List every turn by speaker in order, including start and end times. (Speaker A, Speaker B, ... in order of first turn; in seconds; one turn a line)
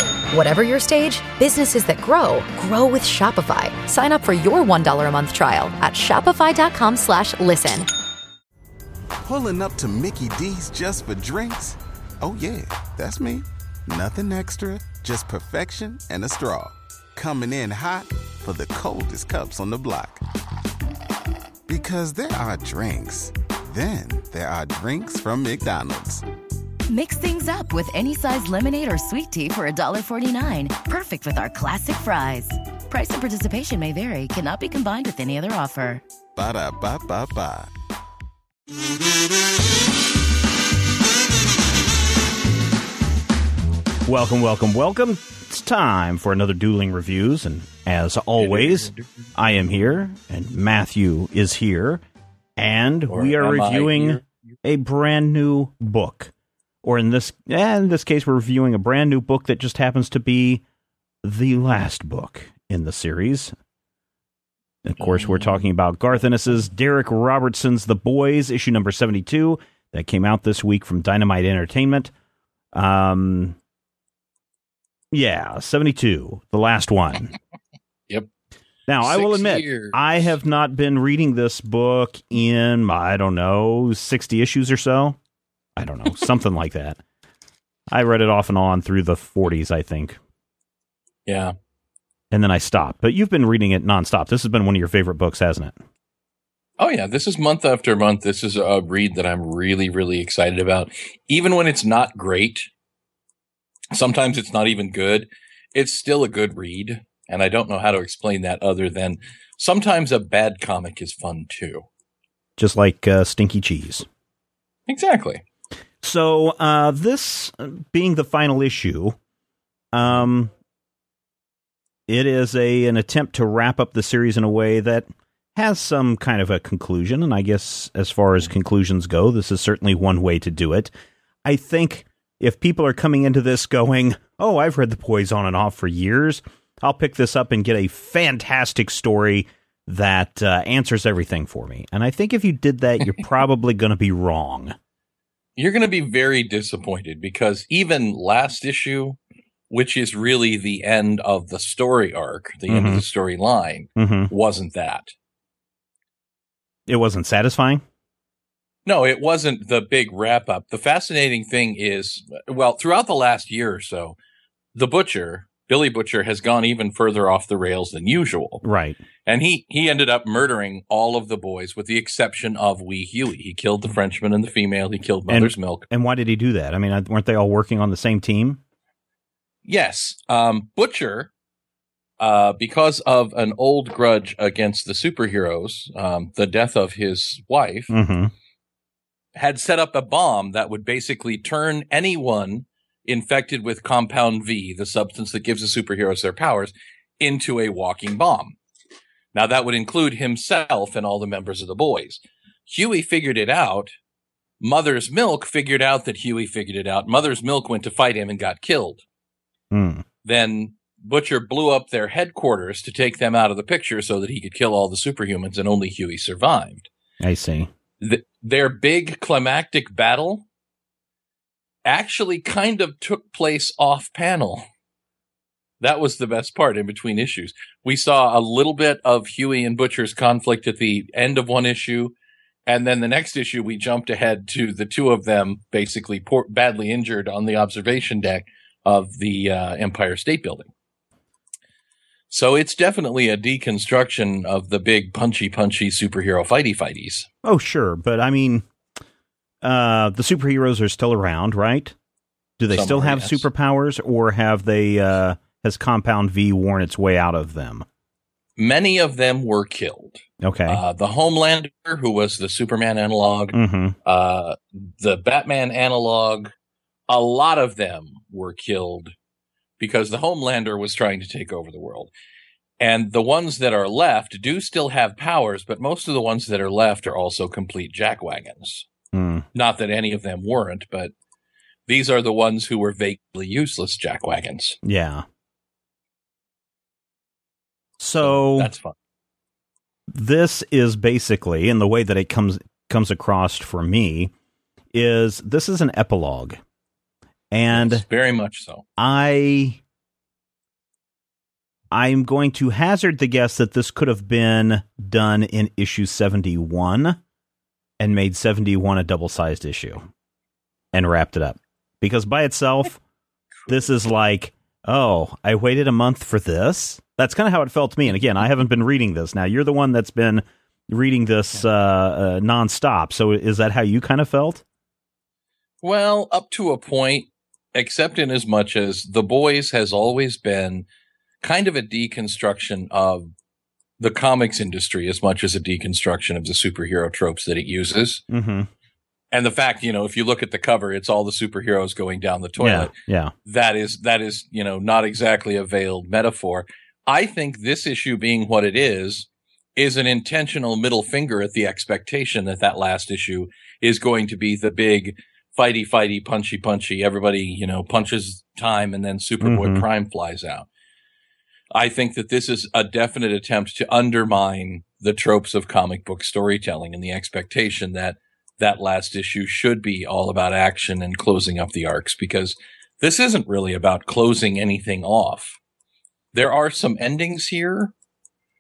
Speaker A: 0.3-7.9
Speaker B: 9.2-20.2
Speaker B: 21.7-26.2
Speaker C: 26.9-36.0
Speaker B: 36.4-37.7
Speaker D: 44.1-52.0
Speaker E: 48.4-49.3
Speaker D: 52.6-56.3
Speaker E: 53.1-54.3
Speaker D: 56.8-60.6
Speaker D: 61.2-63.5
Speaker D: 64.8-72.1
Speaker E: 65.0-65.6
Speaker D: 72.7-73.6
Speaker D: 75.1-77.3
Speaker D: 78.9-85.2
Speaker E: 79.0-80.1
Speaker D: 85.8-87.0
Speaker D: 87.9-90.2
Speaker E: 91.3-91.5
Speaker D: 92.3-95.8
Speaker E: 96.8-102.7
Speaker E: 103.9-111.8
Speaker D: 112.6-114.1
Speaker E: 114.9-115.4
Speaker D: 116.0-119.2
Speaker D: 119.9-120.5
Speaker D: 122.1-130.9
Speaker D: 131.4-144.8
Speaker E: 145.6-149.2
Speaker E: 149.7-155.1
Speaker D: 152.7-153.1
Speaker D: 154.0-154.3
Speaker D: 156.9-157.8
Speaker E: 158.9-164.2
Speaker E: 164.8-168.6
Speaker D: 168.6-169.0
Speaker E: 169.3-175.9
Speaker D: 175.3-178.6
Speaker E: 179.7-181.3
Speaker E: 182.2-187.9
Speaker D: 187.9-188.3
Speaker E: 189.3-198.6
Speaker E: 199.3-203.9
Speaker E: 204.6-209.0
Speaker D: 209.7-210.1
Speaker E: 210.2-216.9
Speaker D: 217.2-217.7
Speaker E: 218.0-220.5
Speaker E: 221.8-224.7
Speaker E: 225.8-232.1
Speaker E: 232.7-240.7
Speaker E: 242.3-247.3
Speaker D: 247.4-248.7
Speaker D: 249.6-251.9
Speaker D: 252.6-257.9
Speaker E: 252.7-253.4
Speaker E: 258.6-266.5
Speaker D: 260.4-260.8
Speaker D: 263.5-264.0
Speaker E: 267.1-269.1
Speaker E: 269.8-272.1
Speaker E: 272.8-278.9
Speaker D: 279.1-279.4
Speaker E: 279.5-281.1
Speaker E: 281.9-284.8
Speaker D: 284.8-285.2
Speaker D: 288.0-288.7
Speaker E: 288.2-288.9
Speaker D: 290.1-294.3
Speaker D: 294.9-296.6
Speaker D: 297.5-298.0
Speaker E: 297.7-298.9
Speaker D: 299.0-299.8
Speaker D: 301.9-307.2
Speaker D: 308.0-310.1
Speaker D: 310.9-313.0
Speaker D: 313.7-324.6
Speaker E: 325.8-330.9
Speaker E: 331.4-333.3
Speaker E: 334.0-338.2
Speaker D: 338.3-338.7
Speaker E: 339.3-342.9
Speaker D: 342.6-343.3
Speaker E: 343.5-360.7
Speaker D: 359.4-359.9
Speaker E: 361.7-375.6
Speaker E: 376.3-377.9